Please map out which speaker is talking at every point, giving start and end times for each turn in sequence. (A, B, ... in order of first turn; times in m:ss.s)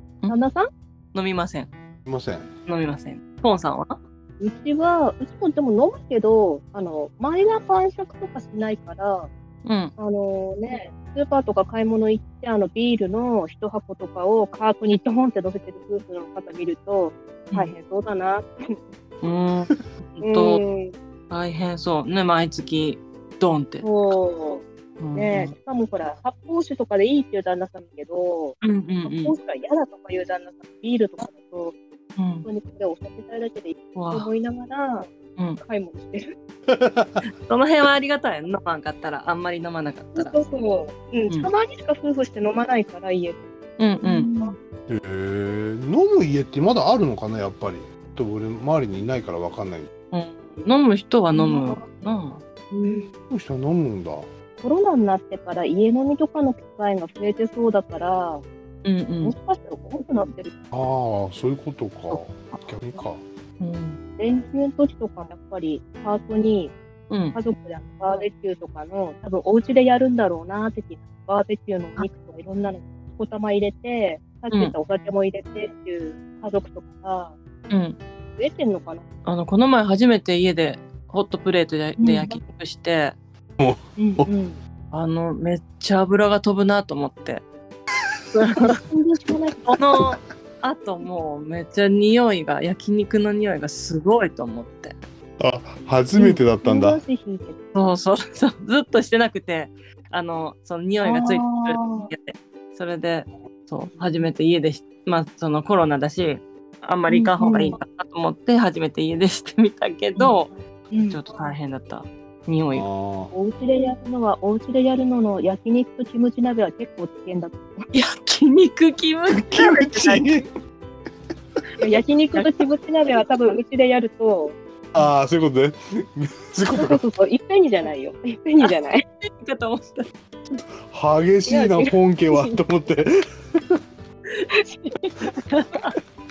0:00.3-0:00.6 A
0:01.1-0:01.7 B
0:02.0-0:02.5 C
0:02.7-0:03.9 B
0:04.4-0:09.3 A
0:09.6-0:09.9 B
0:10.0-0:18.8 A
0:19.2-0:20.6 B
0:20.2-0:20.9 A
0:21.3-0:23.8 B
0:23.8-0:24.6 A
0:25.0-0:25.5 B
0:25.1-0:31.7 A
0:28.6-0:29.3 B
0:32.2-0:32.5 B
0:32.4-0:35.1 A
0:33.9-0:34.3 B
0:35.6-0:36.2 A
0:36.7-0:37.2 C
0:37.4-0:40.4 B
0:40.1-0:43.4 A
0:43.8-0:44.3 B
0:44.0-0:44.5 A
0:44.9-0:49.9 C
0:50.1-0:52.4 B
0:51.3-0:51.8 A
0:52.7-0:53.1 A
0:53.3-0:54.3 C
0:54.6-0:58.4 A
0:58.8-0:59.3 B
0:59.2-1:00.5 A
1:00.7-1:03.2 C
1:02.1-1:02.6 B
1:03.6-1:04.0 B
1:04.2-1:06.7 A
1:07.1-1:07.4 B
1:07.3-1:17.3 A
1:17.7-1:18.0 B
1:18.4-1:19.0 A
1:19.2-1:23.1 B
1:22.0-1:22.4 A
1:23.6-1:24.3 C
1:24.0-1:24.6 A
1:24.9-1:27.4 B
1:28.3-1:28.8 B
1:28.6-1:29.8 A
1:29.7-1:34.9 B
1:35.4-1:37.0 C
1:36.1-1:37.6 A
1:37.7-1:50.5 B
1:41.0-1:42.1 A
1:43.9-1:44.3 A
1:47.1-1:47.8 A
1:50.1-1:51.2 A
1:51.0-1:52.8 B
1:52.7-1:53.3 C
1:53.3-1:57.8 A
1:57.9-2:00.3 B
1:59.3-2:00.5 C
2:01.8-2:04.5 A
2:01.8-2:02.6 B
2:04.9-2:07.0 C
2:06.7-2:09.0 A
2:08.6-2:10.6 B
2:10.9-2:13.8 C
2:11.5-2:11.9 A
2:14.6-2:14.9 A
2:15.0-2:15.9 B